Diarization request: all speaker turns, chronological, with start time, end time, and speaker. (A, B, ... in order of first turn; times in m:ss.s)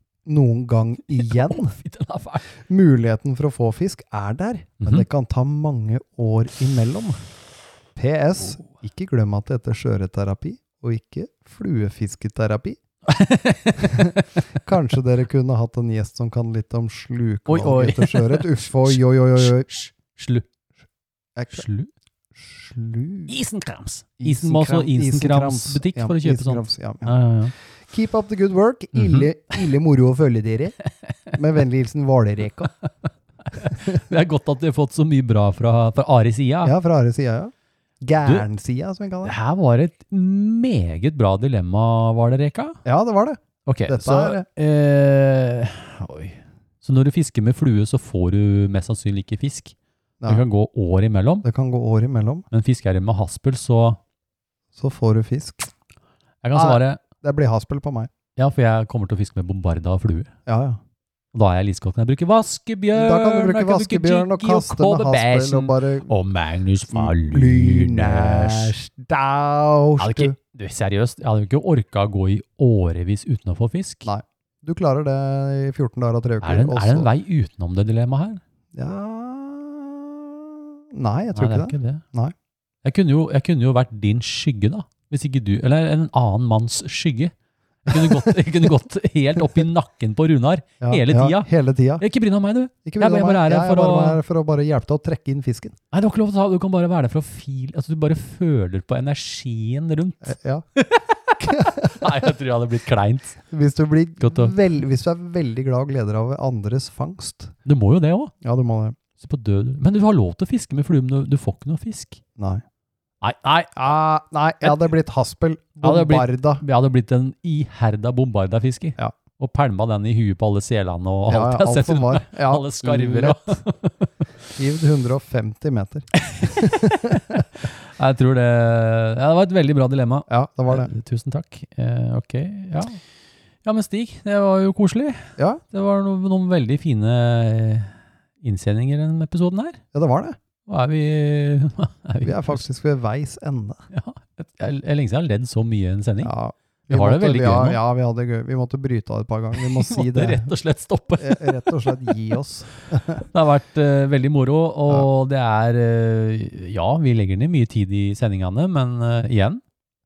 0:00.3-0:01.8 A
0:01.3-0:02.5 B
0:02.7-0:07.2 A
0:04.8-0:05.1 B
0:08.0-0:12.8 A
0:13.1-0:14.4 B
0:13.8-0:19.7 A
0:17.5-0:20.5 B
0:21.4-0:21.7 A
0:21.5-0:21.9 B
0:22.4-0:23.3 A
0:23.3-0:27.5 B
0:24.2-0:27.2 A
0:27.9-0:30.8 A
0:28.9-0:29.3 B
0:31.3-0:32.7 A
0:32.8-0:36.8 B
0:36.6-0:39.4 A
0:39.2-0:42.8 B
0:42.8-0:44.4 A
0:43.6-0:49.8 B
0:50.3-0:51.5 B
0:51.4-0:52.5 A
0:52.5-0:54.0 B
0:54.7-0:55.7 A
0:56.4-0:57.0 B
0:56.6-0:58.1 A
0:58.4-1:00.3 B
1:00.5-1:00.8 A
1:01.3-1:08.8 B
1:02.9-1:06.1 A
1:06.9-1:10.4 A
1:10.0-1:14.1 B
1:14.1-1:17.1 A
1:16.4-1:18.4 B
1:18.7-1:22.4 A
1:21.4-1:22.0 B
1:22.8-1:27.3 B
1:27.9-1:34.2 B
1:27.9-1:28.4 A
1:30.8-1:32.0 A
1:32.8-1:35.8 A
1:35.9-1:43.4 B
1:40.2-1:40.6 A
1:41.4-1:42.1 A
1:43.5-1:47.5 A
1:44.2-1:44.5 B
1:47.6-1:48.3 B
1:48.4-1:49.0 A
1:49.2-1:52.2 B
1:52.4-1:52.6 A
1:53.2-1:53.8 B
1:53.8-1:56.6 A
1:55.8-2:04.3 B
2:01.3-2:03.4 A
2:04.6-2:07.4 A
2:06.2-2:13.0 B
2:10.3-2:10.9 A
2:13.6-2:19.8 B
2:15.4-2:15.6 A
2:19.9-2:20.4 A
2:20.7-2:22.6 B
2:22.2-2:23.8 A
2:23.9-2:26.3 B
2:26.2-2:30.5 A
2:26.9-2:27.8 B
2:29.6-2:32.2 B
2:31.2-2:33.2 A
2:33.2-2:39.6 B